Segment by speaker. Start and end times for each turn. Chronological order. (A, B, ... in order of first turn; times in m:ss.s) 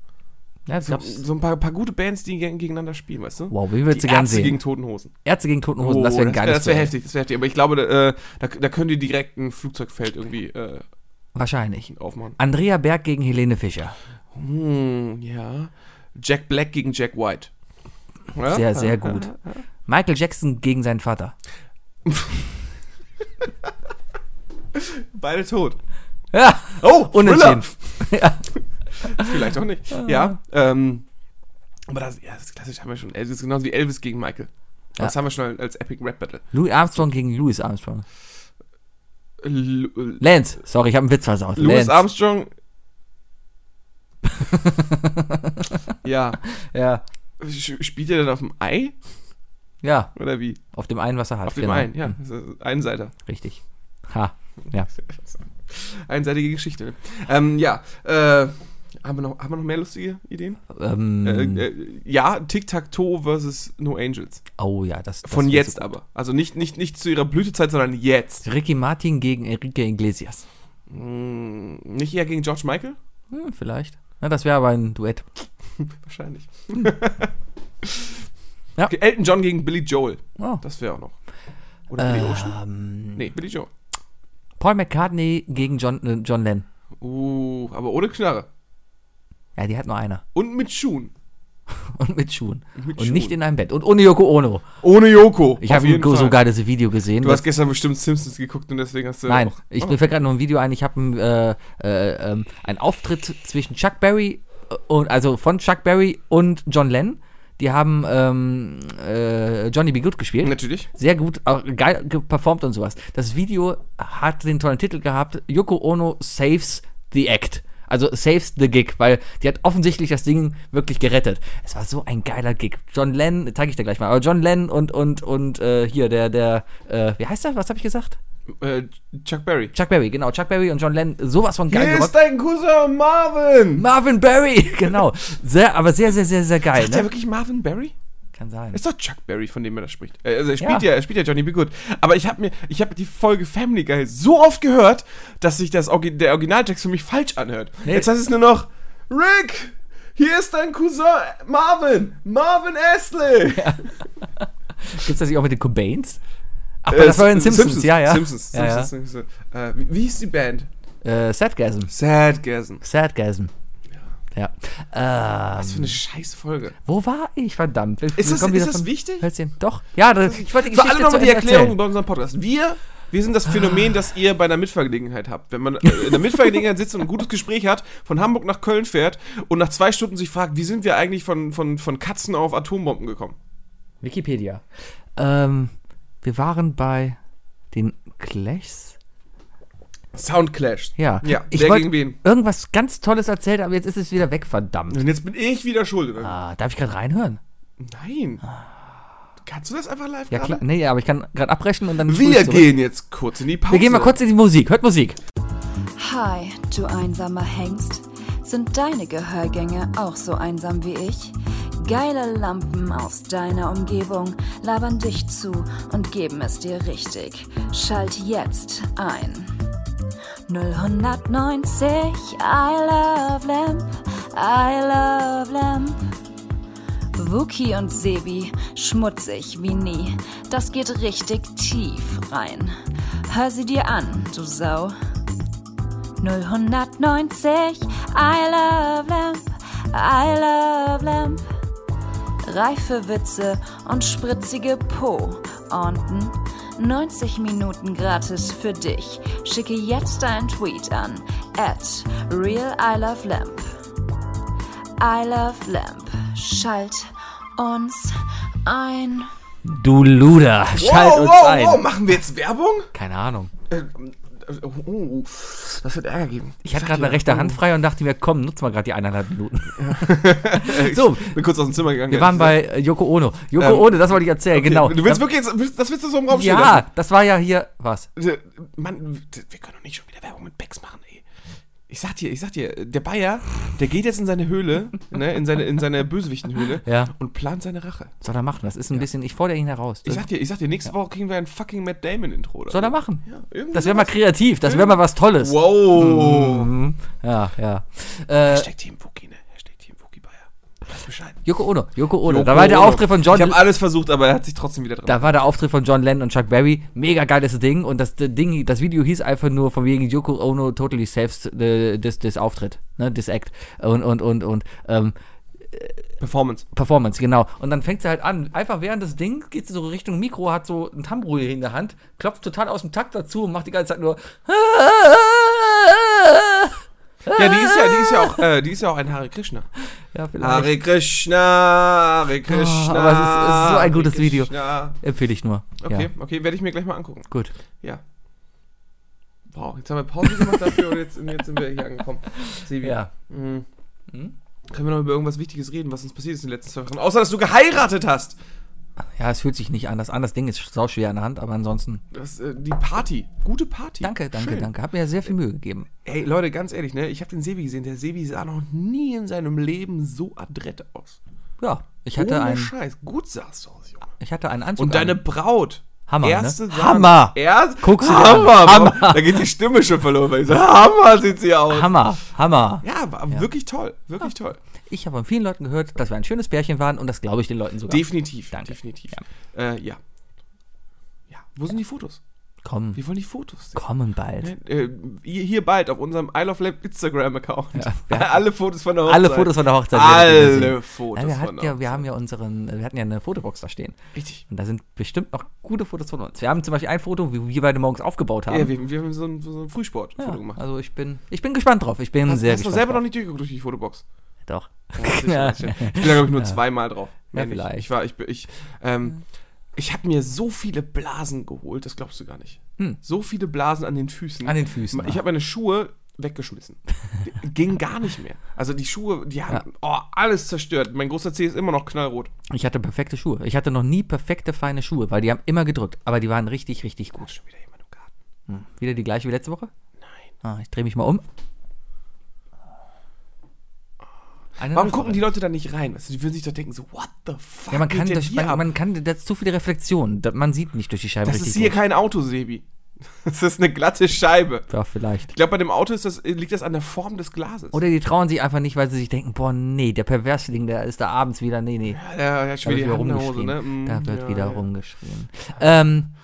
0:00.7-0:01.2 A
0:00.8-0:05.1 B
0:03.5-0:04.6 A
0:05.2-0:06.9 A
0:05.8-0:10.8 B
0:11.4-0:14.0 A
0:11.9-0:12.4 B
0:14.3-0:17.5 B
0:18.3-0:19.6 B
0:18.5-0:19.3 A
0:19.9-0:21.3 A
0:22.0-0:22.5 B
0:24.7-0:25.8 B
0:26.3-0:28.5 A
0:26.8-0:27.8 B
0:29.0-0:29.3 A
0:29.0-0:31.0 B
0:29.9-0:30.4 A
0:31.9-0:36.5 B
0:36.5-0:38.0 A
0:39.4-0:40.2 B
0:40.2-0:42.0 A
0:41.6-0:42.5 B
0:44.4-0:45.8 A
0:46.0-0:46.4 B
0:46.6-0:47.0 A
0:47.4-0:49.0 B
0:49.8-0:50.1 A
0:50.2-0:50.6 B
0:50.7-0:52.1 A
0:51.5-0:53.1 B
0:53.3-0:54.9 A
0:54.9-1:00.6 B
1:00.7-1:01.7 A
1:01.2-1:04.4 B
1:04.6-1:05.9 A
1:05.2-1:08.5 B
1:08.4-1:10.4 A
1:10.9-1:13.0 B
1:13.3-1:15.3 A
1:15.8-1:18.2 B
1:18.9-1:21.2 B
1:21.9-1:22.6 B
1:22.0-1:23.3 A
1:23.1-1:23.7 B
1:24.6-1:26.6 A
1:27.0-1:28.5 B
1:29.6-1:30.2 A
1:30.4-1:31.1 B
1:31.9-1:34.7 A
1:32.8-1:33.4 B
1:34.8-1:36.4 B
1:35.6-1:37.4 A
1:37.2-1:40.0 B
1:39.3-2:08.2 A
1:50.4-1:50.9 B
2:08.5-2:09.8 B
2:09.7-2:12.2 A
2:11.7-2:13.8 B
2:13.8-2:17.1 A
2:16.7-2:18.0 B
2:18.4-2:18.8 A
2:18.7-2:33.9 B
2:33.5-2:36.2 A
2:36.8-2:38.9 A
2:36.9-2:40.7 B
2:41.0-2:41.9 A
2:41.9-2:42.8 B
2:42.8-2:43.5 A
2:44.3-2:46.0 A
2:45.6-2:46.8 B
2:46.8-2:51.8 A
2:48.1-2:49.3 B
2:50.2-3:03.4 B
3:04.0-3:04.6 A
3:05.2-3:07.2 A
3:07.7-3:09.0 A
3:10.1-3:12.2 B
3:11.0-3:15.0 A
3:14.9-3:16.4 B
3:16.2-3:17.4 A
3:17.8-3:18.4 B
3:19.4-3:20.6 B
3:20.3-3:22.8 A
3:22.0-3:24.2 B
3:23.7-3:25.2 A
3:26.0-3:39.5 C
3:40.5-3:46.0 C
3:47.2-3:52.7 C
3:53.3-3:55.0 C
3:56.2-4:01.4 C
4:02.4-4:13.7 C
4:15.0-4:19.3 C
4:19.6-4:21.9 A
4:20.7-4:22.9 B
4:22.9-4:23.5 A
4:23.7-4:27.6 B
4:26.6-4:31.4 A
4:29.8-4:32.6 B
4:32.1-4:35.2 A
4:33.6-4:36.9 B
4:36.3-4:38.1 A
4:38.2-4:41.2 B
4:41.9-4:48.1 B
4:46.8-4:47.1 A
4:48.2-4:50.2 A
4:50.0-4:56.7 B
4:52.7-4:58.7 A
4:58.5-5:01.4 B
5:01.4-5:03.6 A
5:02.2-5:05.4 B
5:05.1-5:15.2 A
5:15.7-5:16.1 A
5:16.2-5:16.7 B
5:16.7-5:28.4 A
5:27.3-5:29.7 B
5:30.1-5:30.8 A
5:30.4-5:35.0 B
5:32.5-5:36.1 A
5:35.8-5:37.3 B
5:39.5-5:43.7 B
5:42.5-5:43.1 A
5:44.7-5:48.4 B
5:49.0-5:52.0 A
5:52.1-5:54.7 B
5:54.0-5:55.9 A
5:56.0-6:01.2 B
6:01.6-6:02.7 A
6:02.2-6:04.1 B
6:04.2-6:05.2 A
6:04.8-6:12.0 B
6:06.1-6:09.4 A
6:11.7-6:13.4 A
6:12.8-6:14.6 B
6:14.9-6:19.2 A
6:17.9-6:20.0 B
6:21.3-6:22.2 B
6:22.6-6:23.0 A
6:23.0-6:23.8 B
6:23.8-6:24.5 A
6:24.4-6:32.0 B
6:27.8-6:28.4 A
6:29.0-6:34.0 A
6:34.2-6:34.4 B
6:34.5-6:38.7 A
6:38.5-6:40.6 B
6:40.2-6:43.0 A
6:42.3-6:44.0 B
6:44.5-6:46.6 A
6:45.0-6:49.2 B
6:47.3-6:47.8 A
6:49.8-7:02.3 B
6:54.4-6:55.2 A
7:02.5-7:07.3 A
7:07.2-7:08.1 B
7:08.5-7:09.7 A
7:10.0-7:10.2 B
7:10.4-7:11.2 A
7:14.6-7:15.3 A
7:14.7-7:18.6 B
7:17.7-7:21.8 A
7:21.2-7:24.7 B
7:24.7-7:25.3 A
7:25.3-7:27.8 B
7:27.7-7:32.0 A
7:31.9-7:34.6 B
7:32.6-7:36.1 A